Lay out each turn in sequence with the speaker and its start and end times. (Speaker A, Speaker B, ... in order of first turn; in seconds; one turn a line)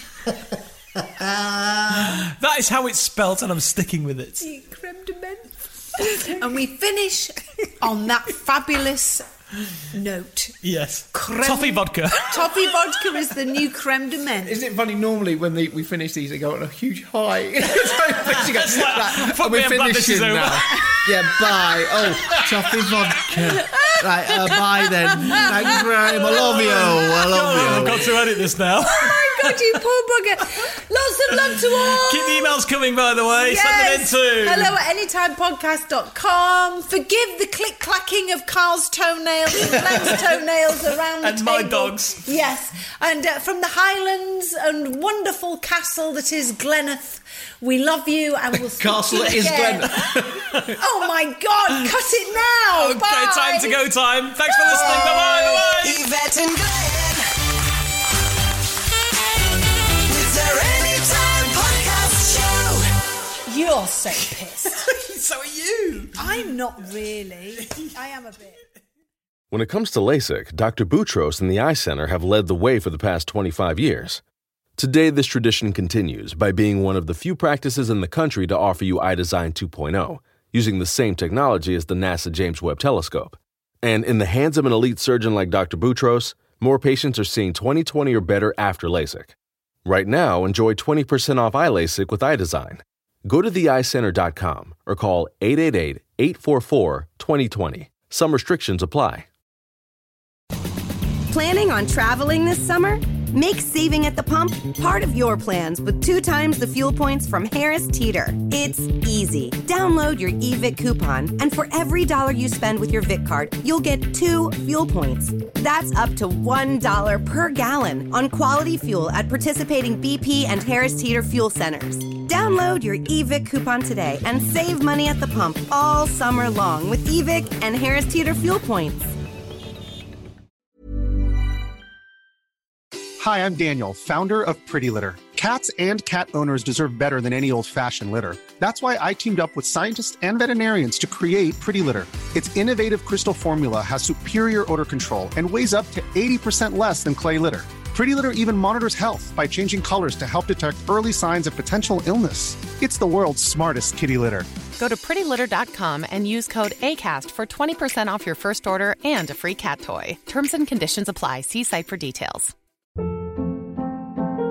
Speaker A: 2.0-4.4
Speaker B: 4.4-9.2
Speaker B: 9.9-10.5
Speaker A: 10.6-12.4
Speaker B: 11.1-14.5
Speaker C: 14.4-28.1
Speaker A: 18.3-20.8
Speaker A: 22.3-22.8
Speaker B: 23.6-24.0
Speaker B: 25.1-32.6
Speaker A: 26.4-29.8
Speaker A: 31.3-34.8
Speaker B: 33.4-49.9
Speaker A: 41.2-42.2
Speaker C: 48.7-50.4
Speaker B: 50.7-53.8
Speaker A: 52.7-56.0
Speaker D: 60.2-62.7
Speaker B: 63.5-64.9
Speaker A: 64.8-66.4
Speaker B: 66.2-68.6
Speaker E: 69.5-74.2
Speaker E: 74.8-89.3
Speaker E: 89.8-99.2
Speaker F: 101.3-129.1
Speaker G: 133.2-154.5
Speaker H: 154.8-162.5